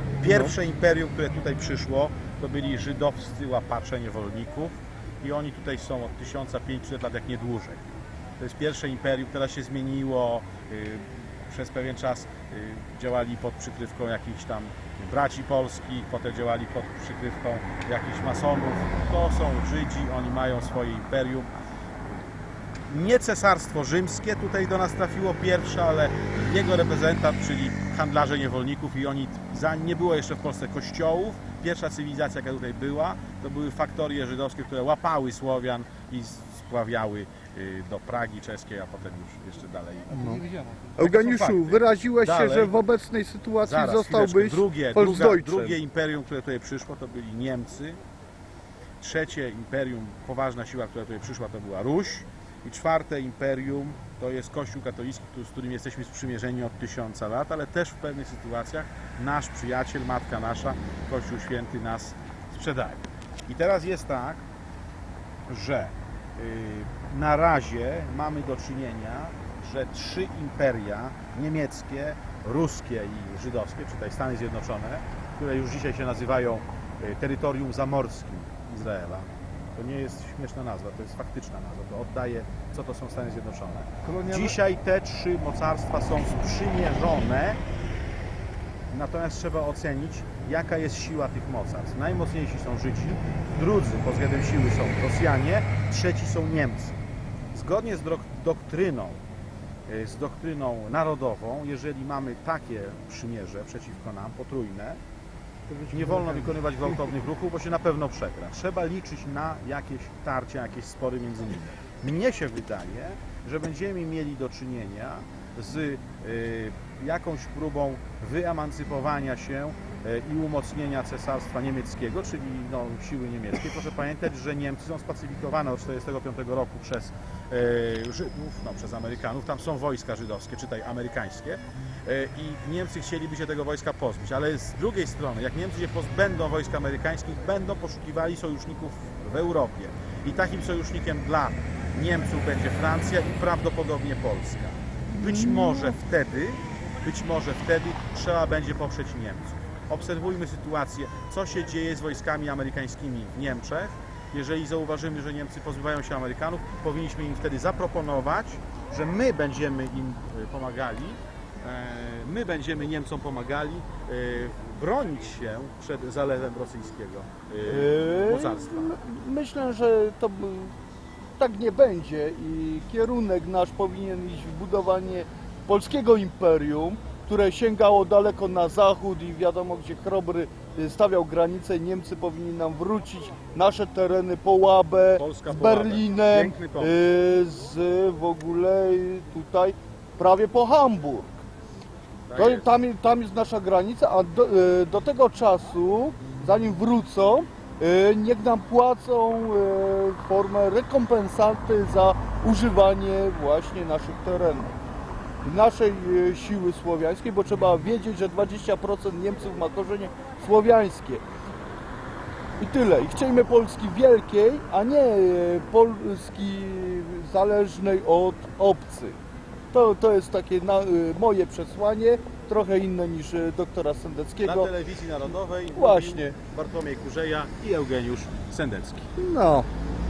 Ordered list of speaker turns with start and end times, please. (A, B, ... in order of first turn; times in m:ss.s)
0:00.2-0:07.9 A
0:00.2-0:00.6 B
0:08.4-0:21.5 A
0:22.9-0:40.4 A
0:40.2-0:45.8 B
0:41.0-0:42.7 A
0:43.6-0:48.0 A
0:49.0-1:04.4 A
1:05.5-1:27.6 A
1:24.0-1:24.6 B
1:28.9-1:37.0 A
1:37.5-1:39.2 A
1:39.9-1:45.0 A
1:45.9-2:49.0 A
2:25.1-2:26.0 B
2:47.6-2:50.7 B
2:51.4-3:11.4 B
3:05.1-3:07.0 A
3:12.3-3:12.8 A
3:12.4-3:24.7 B
3:25.4-3:31.2 B
3:32.6-3:39.2 B
3:39.7-3:44.7 B
3:44.4-3:49.1 A
3:45.7-3:46.4 B
3:49.2-3:49.7 B